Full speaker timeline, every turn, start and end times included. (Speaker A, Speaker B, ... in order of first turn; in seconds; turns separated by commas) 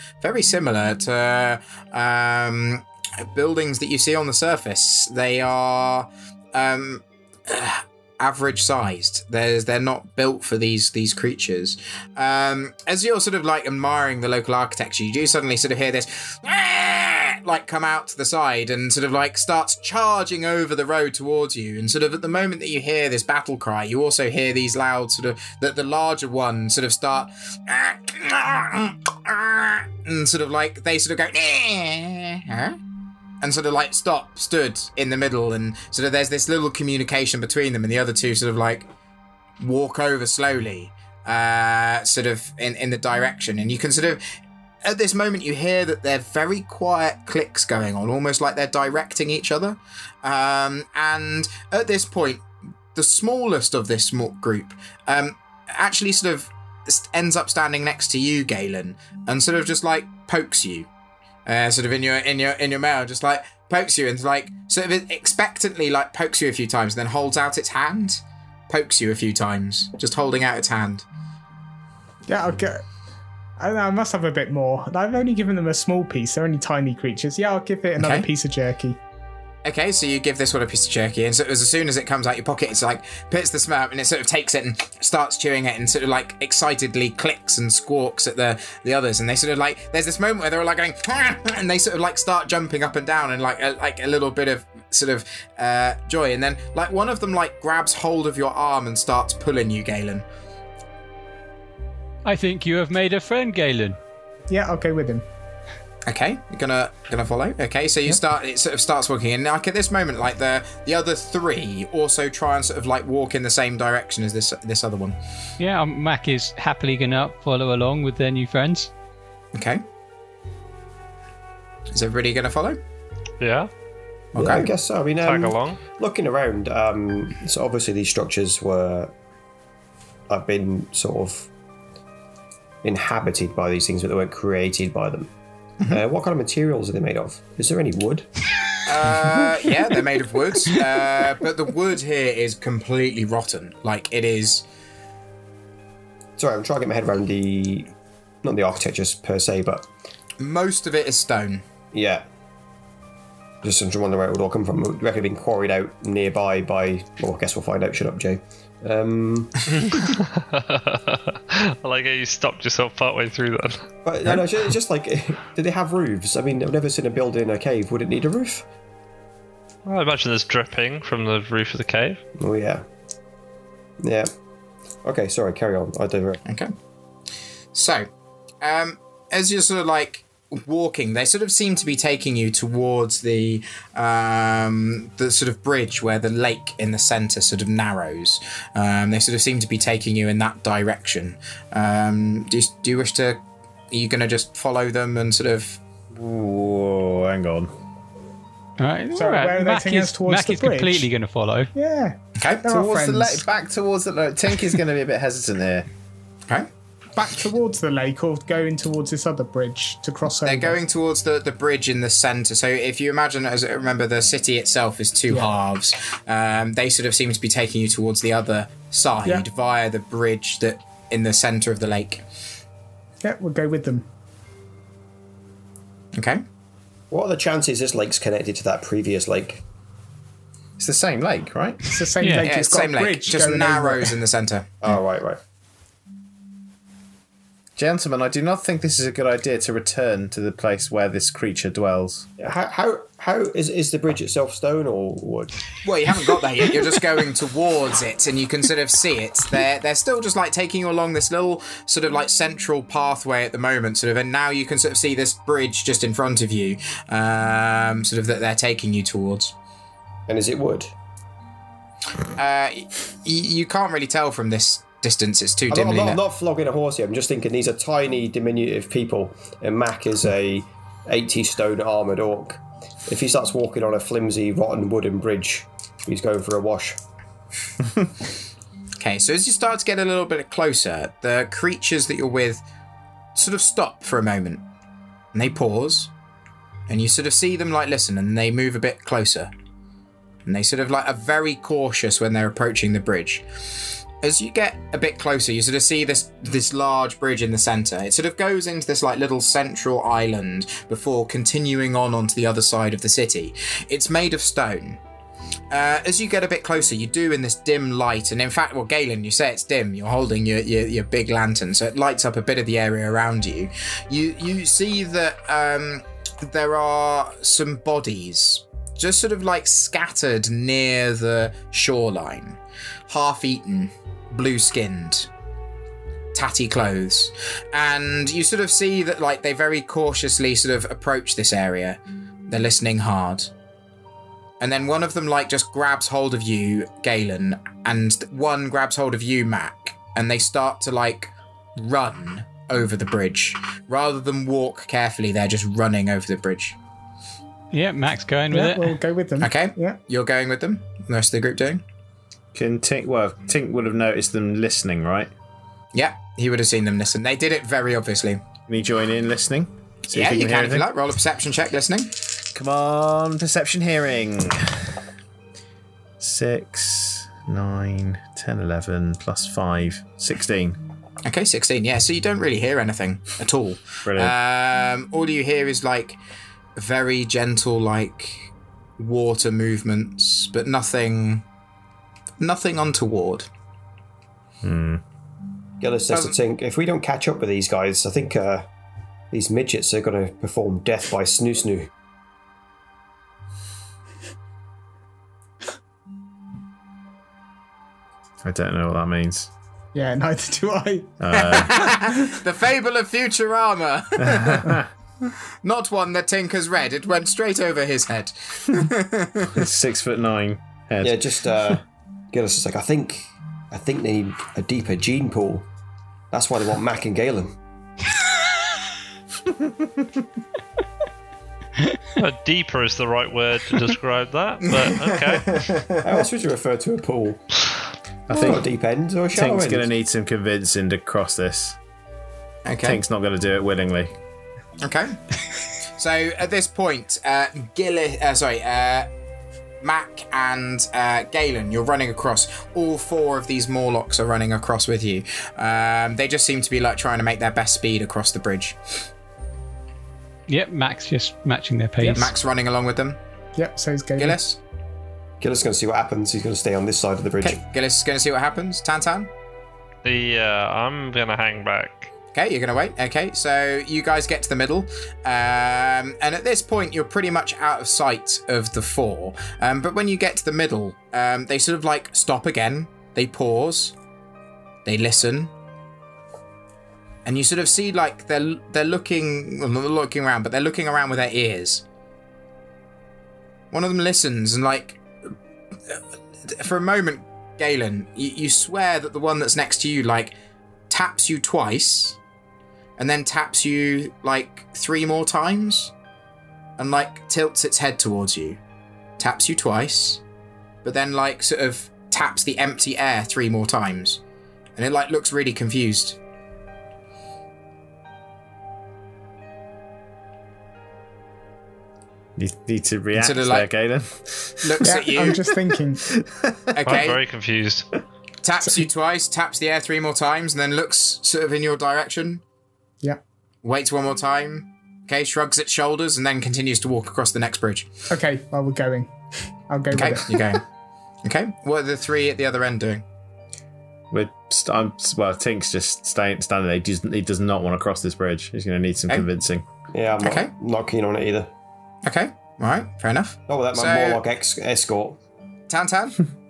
Speaker A: 0.2-32.8, Speaker A: 33.4-38.9, Speaker A: 39.6-44.2, Speaker A: 44.8-60.9, Speaker A: 61.5-71.0, Speaker B: 72.3-72.8, Speaker B: 73.6-79.0, Speaker A: 78.0-78.3, Speaker A: 79.7-100.2, Speaker C: 102.2-104.0, Speaker B: 104.5-105.2, Speaker A: 106.1-115.2, Speaker C: 115.6-118.9, Speaker A: 119.5-119.8, Speaker A: 121.9-122.8, Speaker D: 123.4-123.7, Speaker A: 124.3-124.7, Speaker E: 124.4-129.1, Speaker D: 125.2-125.8, Speaker E: 130.3-131.5, Speaker E: 132.8-135.3, Speaker E: 135.9-138.3, Speaker A: 138.8-144.7, Speaker E: 146.4-147.9, Speaker E: 148.4-149.9, Speaker A: 150.4-151.7, Speaker E: 151.9-152.2, Speaker E: 153.6-159.7, Speaker D: 159.8-163.9, Speaker E: 164.1-168.7, Speaker D: 169.8-172.2, Speaker E: 172.4-172.8, Speaker E: 174.0-174.3, Speaker E: 175.0-176.4, Speaker A: 176.5-176.7, Speaker A: 177.7-178.1, Speaker A: 178.6-195.8, Speaker F: 196.1-197.7, Speaker C: 198.8-201.7, Speaker B: 199.1-201.1, Speaker B: 201.8-203.4, Speaker A: 202.4-202.7, Speaker F: 202.6-205.9, Speaker B: 207.2-210.8, Speaker A: 210.4-222.2, Speaker B: 223.2-224.1, Speaker A: 226.2-226.4, Speaker E: 227.1-229.6, Speaker F: 230.8-231.9, Speaker B: 231.9-234.2, Speaker C: 232.2-232.5, Speaker A: 232.4-234.7, Speaker E: 234.8-235.4, Speaker F: 237.8-242.3, Speaker E: 242.4-245.6, Speaker A: 245.8-259.5, Speaker E: 260.3-260.9, Speaker A: 262.4-266.2, Speaker E: 265.7-277.0, Speaker A: 279.0-282.6, Speaker A: 283.4-284.6, Speaker A: 285.3-286.1, Speaker A: 286.9-289.5, Speaker A: 290.5-305.0, Speaker A: 305.7-325.3, Speaker A: 326.3-333.5, Speaker A: 334.6-346.8, Speaker C: 347.7-349.0, Speaker B: 348.5-350.0, Speaker A: 349.4-351.8, Speaker F: 352.5-355.3, Speaker A: 355.9-358.4, Speaker F: 358.7-360.9, Speaker A: 360.1-362.2, Speaker F: 362.5-365.0, Speaker F: 366.2-370.8, Speaker A: 371.2-376.2, Speaker F: 374.1-374.4, Speaker A: 376.8-381.4, Speaker A: 382.4-383.5, Speaker F: 384.6-385.0, Speaker E: 385.8-388.7, Speaker A: 386.1-386.4, Speaker E: 389.3-391.9, Speaker F: 398.4-399.5, Speaker B: 399.9-401.2, Speaker F: 401.2-401.9, Speaker A: 401.3-409.6, Speaker F: 404.2-404.9, Speaker F: 409.5-411.4, Speaker E: 411.0-415.7, Speaker E: 416.3-417.6, Speaker D: 422.2-425.7, Speaker A: 424.7-425.8, Speaker E: 426.0-427.5, Speaker F: 428.3-428.7, Speaker E: 428.3-429.9, Speaker F: 429.3-431.8, Speaker A: 432.7-433.0, Speaker F: 432.8-434.1, Speaker A: 434.8-435.2, Speaker A: 435.9-439.1, Speaker A: 439.8-449.1, Speaker C: 450.5-452.3, Speaker B: 452.0-452.3, Speaker A: 452.1-453.2, Speaker B: 453.6-454.4, Speaker A: 454.2-454.6, Speaker E: 455.4-457.6, Speaker A: 457.4-459.3, Speaker D: 460.0-462.1, Speaker A: 462.3-473.9, Speaker A: 474.9-475.5, Speaker A: 477.2-481.8, Speaker A: 483.7-485.3, Speaker A: 485.9-490.4, Speaker A: 490.9-492.2, Speaker A: 493.0-495.9, Speaker A: 496.8-498.6, Speaker A: 499.2-500.2, Speaker A: 500.8-504.2, Speaker A: 504.8-506.2, Speaker F: 512.4-516.8, Speaker A: 513.2-513.7, Speaker A: 514.6-515.4, Speaker B: 514.8-516.1, Speaker A: 516.7-517.2, Speaker D: 516.9-517.9, Speaker A: 518.4-522.4, Speaker A: 523.6-527.9, Speaker B: 528.1-530.6, Speaker A: 529.9-530.6, Speaker A: 531.2-533.0, Speaker F: 534.1-539.7, Speaker E: 539.9-541.5, Speaker A: 540.2-540.5, Speaker A: 542.1-544.2, Speaker E: 543.5-545.2, Speaker A: 545.7-546.2